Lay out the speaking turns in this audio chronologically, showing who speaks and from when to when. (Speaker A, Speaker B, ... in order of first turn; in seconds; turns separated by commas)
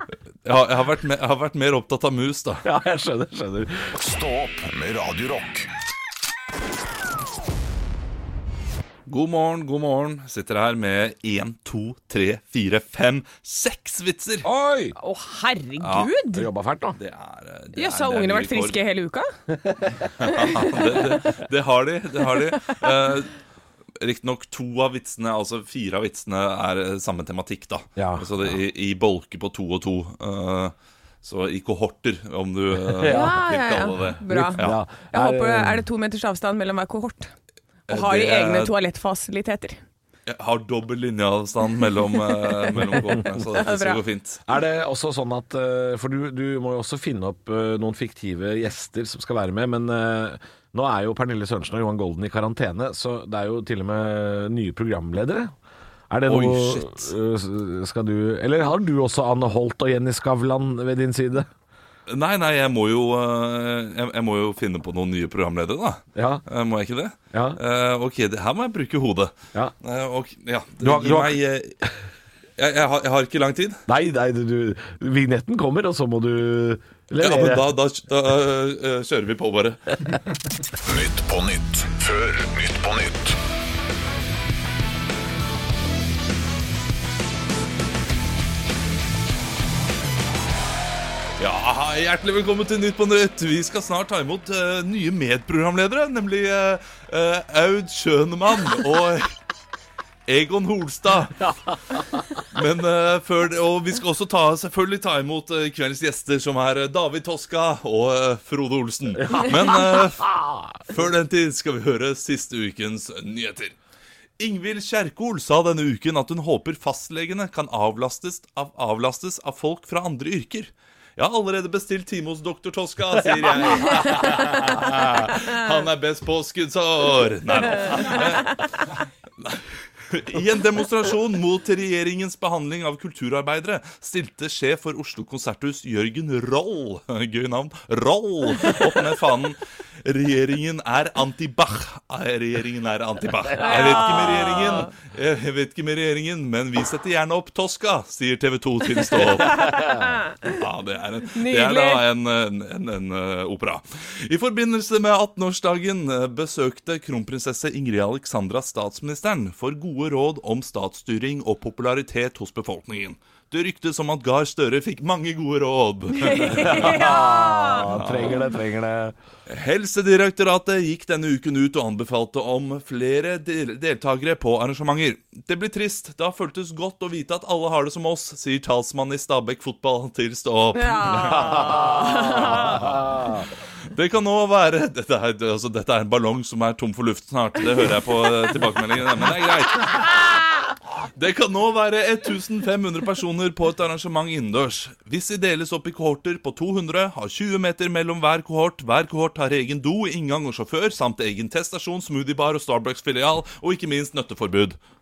Speaker A: 0.5-2.6, Speaker B: 2.6-3.9, Speaker C: 3.9-5.7, Speaker A: 9.1-14.5, Speaker B: 14.4-14.9, Speaker D: 15.0-16.5, Speaker A: 15.8-16.1, Speaker B: 16.3-17.0, Speaker A: 16.9-18.8, Speaker D: 17.7-19.3, Speaker A: 20.2-23.3, Speaker D: 20.2-20.8, Speaker A: 24.0-34.8, Speaker B: 28.0-28.6, Speaker B: 33.0-33.3, Speaker D: 33.0-37.3, Speaker B: 34.3-35.8, Speaker D: 37.9-39.8, Speaker A: 37.9-38.8, Speaker A: 40.3-44.4, Speaker D: 42.3-42.8, Speaker D: 43.5-44.0, Speaker B: 44.5-55.5, Speaker B: 56.1-61.5, Speaker A: 56.3-57.1, Speaker A: 62.1-71.8, Speaker B: 66.2-66.4, Speaker B: 67.3-67.6, Speaker B: 70.8-71.4, Speaker A: 72.6-73.8, Speaker B: 73.9-77.7, Speaker A: 77.2-80.2, Speaker C: 80.8-83.4, Speaker A: 91.4-99.3, Speaker A: 100.3-113.8, Speaker B: 109.3-109.6, Speaker A: 114.4-167.2, Speaker D: 143.6-144.9, Speaker D: 149.6-150.1, Speaker D: 151.3-152.0, Speaker D: 166.2-167.9, Speaker B: 166.5-169.2, Speaker A: 167.8-168.4, Speaker A: 169.5-183.4, Speaker D: 180.7-182.8, Speaker B: 182.3-183.4, Speaker A: 183.9-190.6, Speaker A: 191.2-204.8